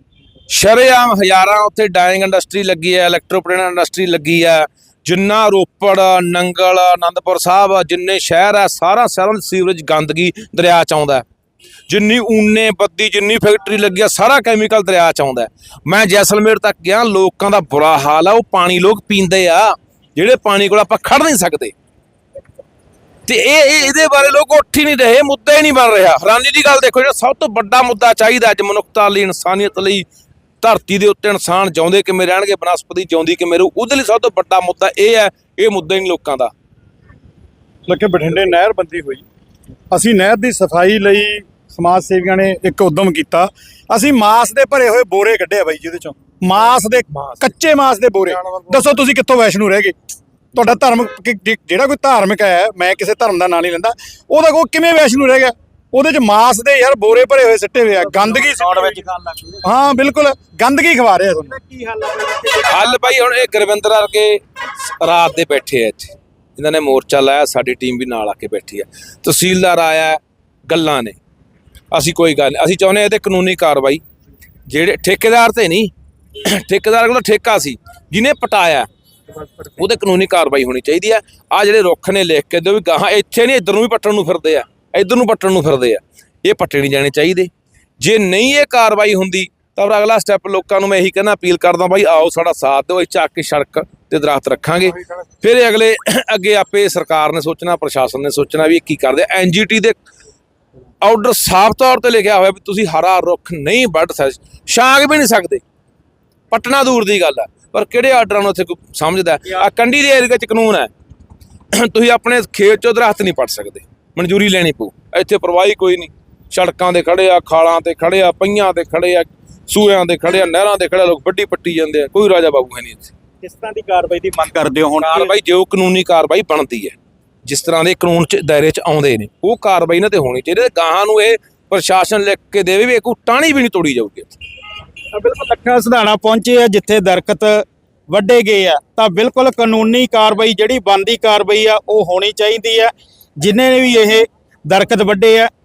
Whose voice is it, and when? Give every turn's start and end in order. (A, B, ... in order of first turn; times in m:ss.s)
0:00.5-0:11.2 A
0:11.9-0:21.7 A
0:23.3-0:30.0 A
0:30.6-0:36.5 A
0:37.9-0:39.2 B
0:39.9-0:49.9 B
0:50.5-0:59.0 B
0:58.0-0:59.6 C
0:59.6-1:01.6 B
1:01.5-1:03.5 C
1:02.6-1:11.2 A
1:11.9-1:14.0 A
1:14.7-1:15.9 A
1:16.4-1:18.9 A
1:19.7-1:40.0 A
1:41.0-1:45.6 A
1:46.5-1:50.9 A
1:51.7-2:03.1 A
2:03.4-2:05.3 C
2:05.0-2:14.3 A
2:15.1-2:25.5 C